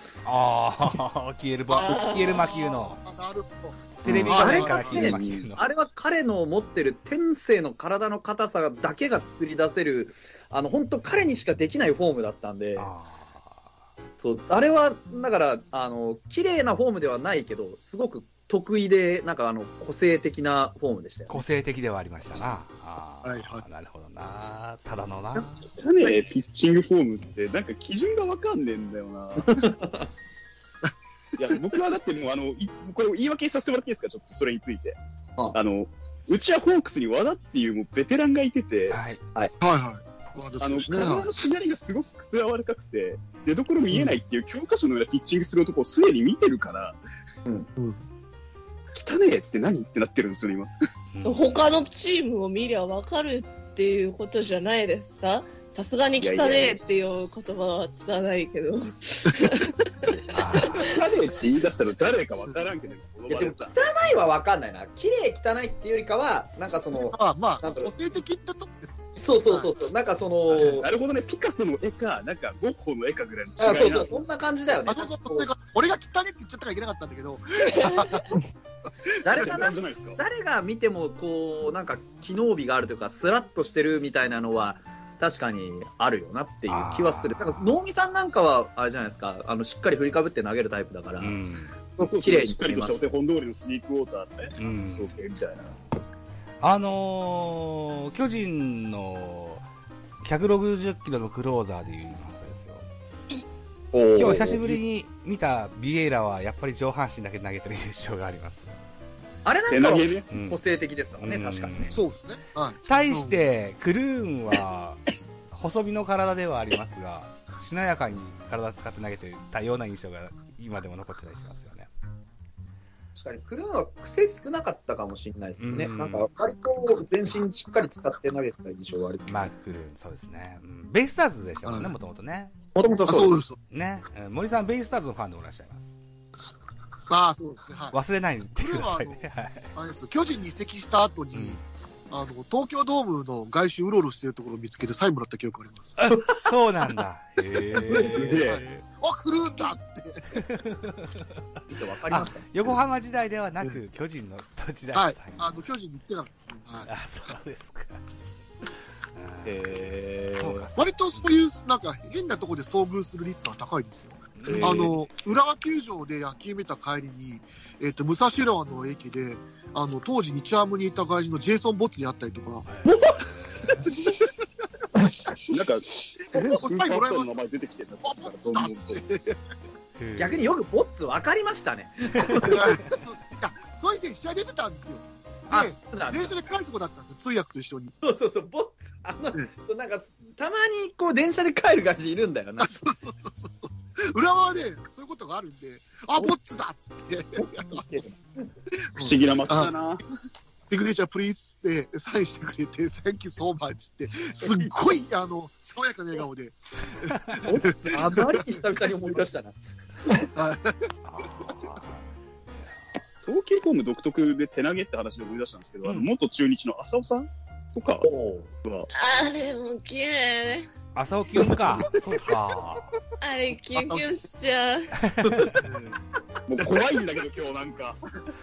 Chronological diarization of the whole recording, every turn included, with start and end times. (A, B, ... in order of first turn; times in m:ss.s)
0:00.2-0:03.0 A
0:01.7-0:03.8 B
0:01.8-0:02.5 C
0:04.0-0:05.6 A
0:04.1-0:05.5 D
0:04.2-0:12.9 E
0:04.3-0:05.0 B
0:12.8-0:13.7 A
0:14.2-0:21.4 E
0:21.3-0:25.5 A
0:23.2-0:23.6 B
0:25.6-0:29.7 D
0:29.5-0:30.1 E
0:31.4-0:35.0 D
0:35.5-0:39.0 D
0:38.9-0:39.2 A
0:39.6-0:41.3 B
0:40.6-0:47.0 D
0:43.9-0:44.2 B
0:47.8-0:48.0 B
0:48.9-0:50.7 D
0:51.1-0:51.4 A
0:51.2-1:01.1 C
0:56.2-0:56.8 D
1:00.3-1:00.9 A
1:00.7-1:03.8 D
1:03.3-1:07.9 E
1:06.9-1:08.9 B
1:09.2-1:10.9 E
1:09.5-1:09.8 B
1:10.5-1:14.2 D
1:13.6-1:15.5 E
1:14.9-1:18.4 B
1:19.1-1:19.5 B
1:19.2-1:31.4 E
1:19.4-1:20.2 D
1:26.7-1:27.7 A
1:31.2-1:31.8 A
1:31.9-1:33.0 E
1:32.0-1:35.7 D
1:34.6-1:35.1 A
1:36.6-1:39.6 A
1:40.2-1:42.9 A
1:43.9-1:44.7 E
1:44.2-1:48.8 A
1:49.4-1:51.9 E
1:49.7-1:50.3 D
1:50.3-1:50.6 A
1:51.2-1:52.0 A
1:51.9-1:53.4 B
1:52.8-1:55.0 A
1:55.5-2:01.9 A
2:03.2-2:09.5 E
2:05.6-2:06.3 A
2:09.3-2:12.5 A
2:11.6-2:12.0 B
2:12.8-2:13.4 E
2:13.0-2:13.6 B
2:13.7-2:15.9 A
2:17.1-2:18.0 B
2:17.9-2:19.7 A
2:18.5-2:26.0 B
2:26.0-2:28.8 A
2:26.0-2:26.5 E
2:27.7-2:30.4 B
2:27.9-2:28.4 E
2:28.2-2:28.6 D
2:30.4-2:31.4 A
2:31.7-2:32.5 E
2:32.1-2:35.6 A
2:32.1-2:32.8 B
2:34.9-2:36.9 B
2:36.8-2:38.0 A
2:39.2-2:41.3 A
2:39.5-2:40.7 E
2:40.8-2:52.6 B
2:44.4-2:44.9 A
2:44.5-2:44.9 E
2:52.7-2:53.8 A
2:52.9-2:53.8 E
2:55.5-2:59.0 D
2:56.2-2:57.4 B
2:58.0-2:59.4 B
3:00.0-3:00.5 A
3:00.2-3:02.8 E
3:02.2-3:02.5 A
3:02.3-3:08.0 B
3:05.5-3:06.4 E
3:08.0-3:12.7 E
3:12.6-3:17.8 B
3:17.4-3:18.5 E
3:18.9-3:19.7 B
3:19.0-3:20.0 D
3:20.7-3:29.3 B
3:24.4-3:25.0 E
3:27.4-3:30.2 E
3:30.3-3:30.9 B
3:31.0-3:32.8 A
3:33.2-3:38.1 D
3:35.8-3:36.1 A
3:38.0-3:38.5 E
3:38.9-3:40.7 C
3:41.0-3:43.0 A
3:43.2-3:44.9 C
3:43.8-3:44.0 B
3:45.0-3:45.5 A
3:45.2-3:45.6 E
3:45.6-3:46.0 B
3:46.5-3:48.0 D